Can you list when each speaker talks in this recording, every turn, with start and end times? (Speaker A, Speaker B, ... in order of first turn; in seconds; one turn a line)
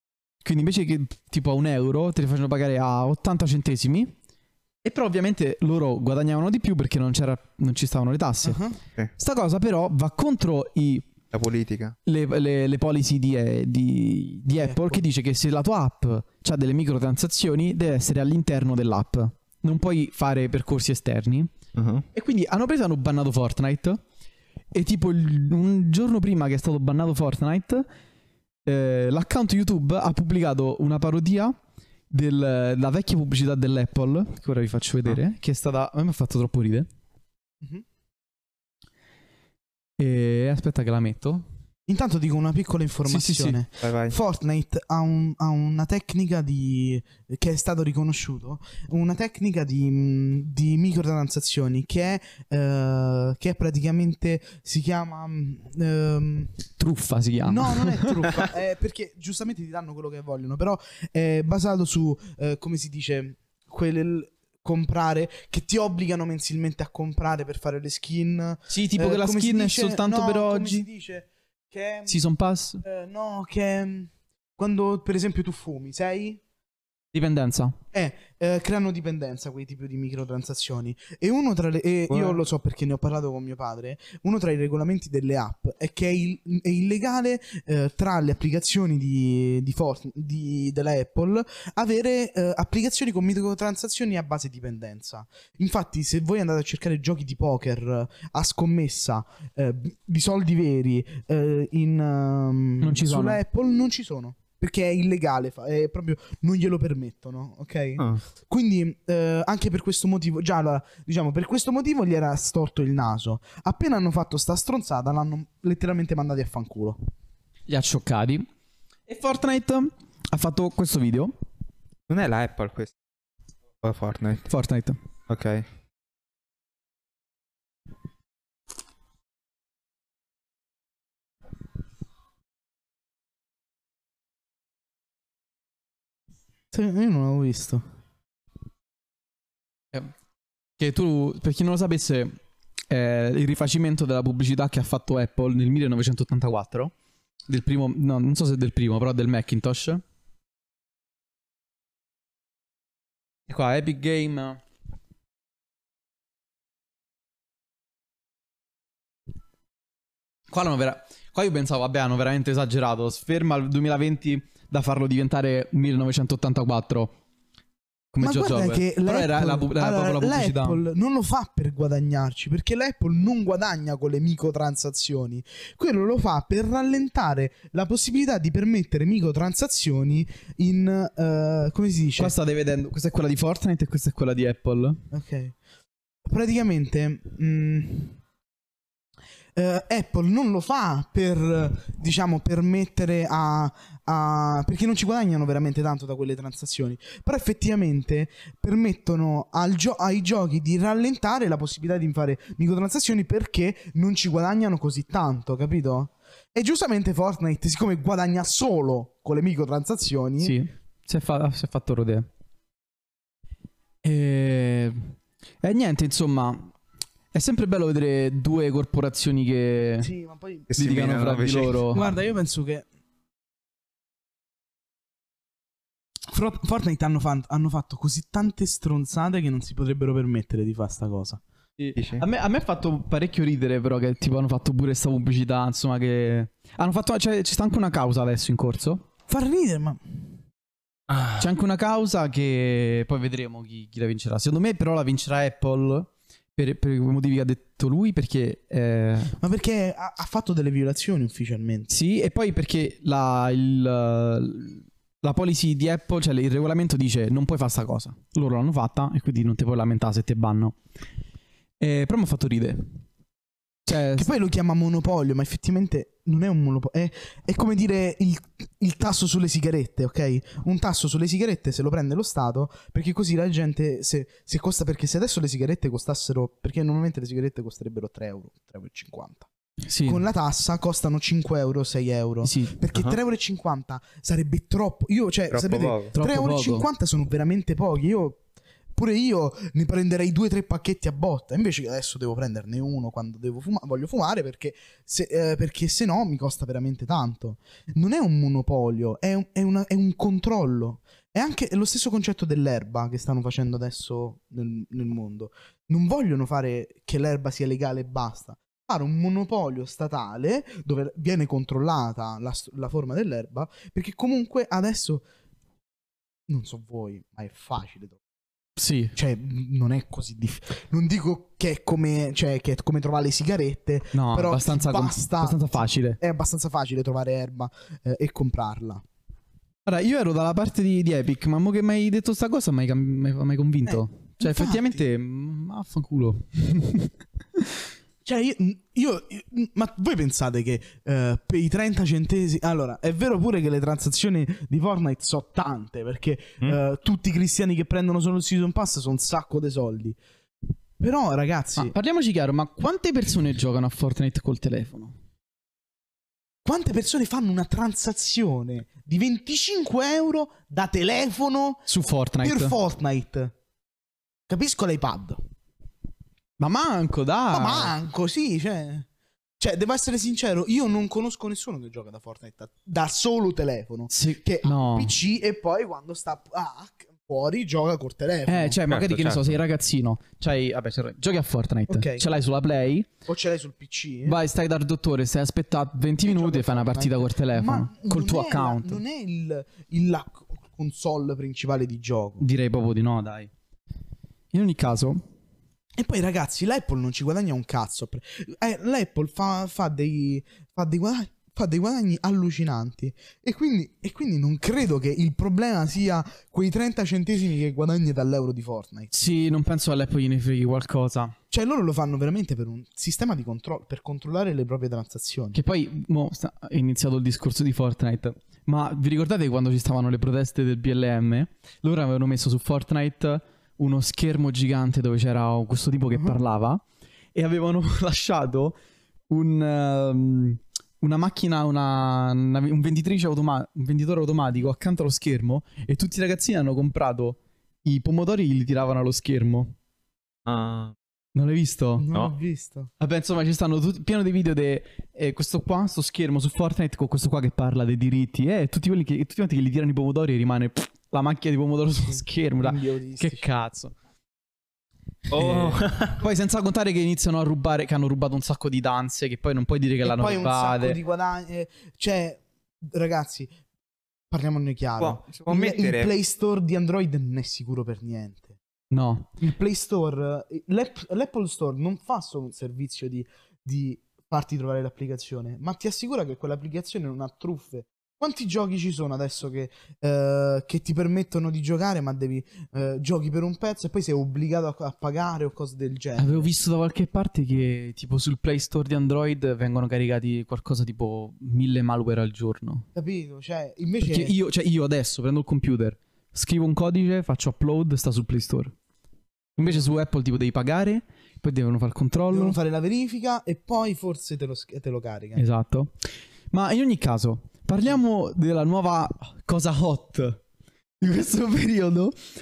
Speaker A: 0.4-4.1
Speaker A: 4.8-8.6
Speaker B: 8.4-8.8
Speaker A: 9.2-11.1
Speaker C: 11.3-11.9
Speaker A: 12.1-21.5
Speaker B: 14.6-15.0
Speaker C: 21.8-22.0
Speaker A: 22.1-24.0
Speaker A: 24.7-27.9
Speaker A: 28.7-31.6
Speaker A: 32.1-36.9
Speaker A: 40.0-41.5
Speaker B: 41.9-56.5
Speaker A: 43.1-43.6
Speaker C: 43.8-44.2
Speaker A: 56.8-58.3
Speaker B: 57.5-72.2
Speaker A: 68.7-70.8
Speaker A: 72.1-72.8
Speaker B: 72.8-76.4
Speaker A: 77.1-77.8
Speaker B: 77.9-117.0
Speaker C: 82.1-82.4
Speaker A: 102.8-103.4
Speaker A: 117.7-118.5
Speaker A: 119.1-121.3
Speaker C: 122.1-122.9
Speaker C: 123.8-124.5
Speaker A: 124.5-125.0
Speaker C: 125.3-125.7
Speaker B: 136.7-137.8
Speaker A: 140.8-142.3
Speaker A: 142.9-146.9
Speaker A: 147.5-150.0
Speaker A: 153.5-154.6
Speaker A: 160.5-167.1
Speaker A: 168.1-170.8
Speaker B: 168.2-182.3
Speaker A: 182.2-185.0
Speaker B: 185.1-185.5
Speaker B: 186.2-188.2
Speaker B: 189.5-210.6
Speaker A: 210.4-212.3
Speaker A: 214.0-216.7
Speaker A: 217.3-220.1
Speaker B: 220.0-220.7
Speaker C: 220.7-221.8
Speaker A: 220.7-222.0
Speaker B: 221.9-222.8
Speaker B: 226.3-231.4
Speaker A: 231.8-239.1
Speaker C: 232.0-232.2
Speaker B: 239.3-240.0
Speaker C: 241.1-241.4
Speaker A: 241.3-249.3
Speaker B: 249.4-251.9
Speaker A: 251.9-260.8
Speaker A: 261.8-262.9
Speaker A: 263.9-264.3
Speaker B: 264.1-279.5
Speaker A: 279.9-280.2
Speaker B: 280.1-288.4
Speaker A: 282.4-282.8
Speaker C: 285.5-286.1
Speaker A: 286.1-286.9
Speaker B: 288.9-315.2
Speaker B: 316.5-318.2
Speaker A: 318.8-319.1
Speaker B: 319.2-329.0
Speaker A: 324.1-326.2
Speaker A: 329.9-337.7
Speaker B: 333.9-335.1
Speaker B: 338.2-350.2
Speaker B: 351.0-351.9
Speaker A: 351.8-355.1
Speaker B: 356.6-361.9
Speaker A: 361.9-362.8
Speaker B: 362.4-363.6
Speaker B: 364.5-365.4
Speaker A: 366.6-367.9
Speaker B: 367.5-369.1
Speaker B: 369.6-378.8
Speaker A: 374.1-375.1
Speaker A: 378.5-383.1
Speaker C: 378.9-379.6
Speaker B: 381.9-382.3
Speaker B: 383.2-384.4
Speaker A: 384.2-389.0
Speaker B: 386.2-392.4
Speaker A: 392.4-393.5
Speaker A: 394.5-395.2
Speaker B: 396.0-409.3
Speaker A: 409.1-411.4
Speaker B: 411.5-415.6
Speaker A: 415.5-426.8
Speaker A: 427.4-428.8
Speaker A: 429.3-439.7
Speaker C: 440.5-440.9
Speaker A: 441.4-442.1
Speaker B: 442.0-442.9
Speaker A: 443.0-453.9
Speaker B: 452.6-453.5
Speaker C: 455.3-456.2
Speaker A: 455.4-461.0
Speaker B: 460.0-463.5
Speaker B: 464.3-468.6
Speaker C: 465.0-466.1
Speaker A: 468.9-469.4
Speaker B: 469.4-486.5
Speaker A: 486.2-492.9
Speaker B: 492.9-494.3
Speaker A: 494.0-498.7
Speaker A: 499.6-502.6
Speaker B: 502.3-505.4
Speaker A: 505.4-505.9
Speaker A: 506.5-510.4
Speaker A: 511.0-512.2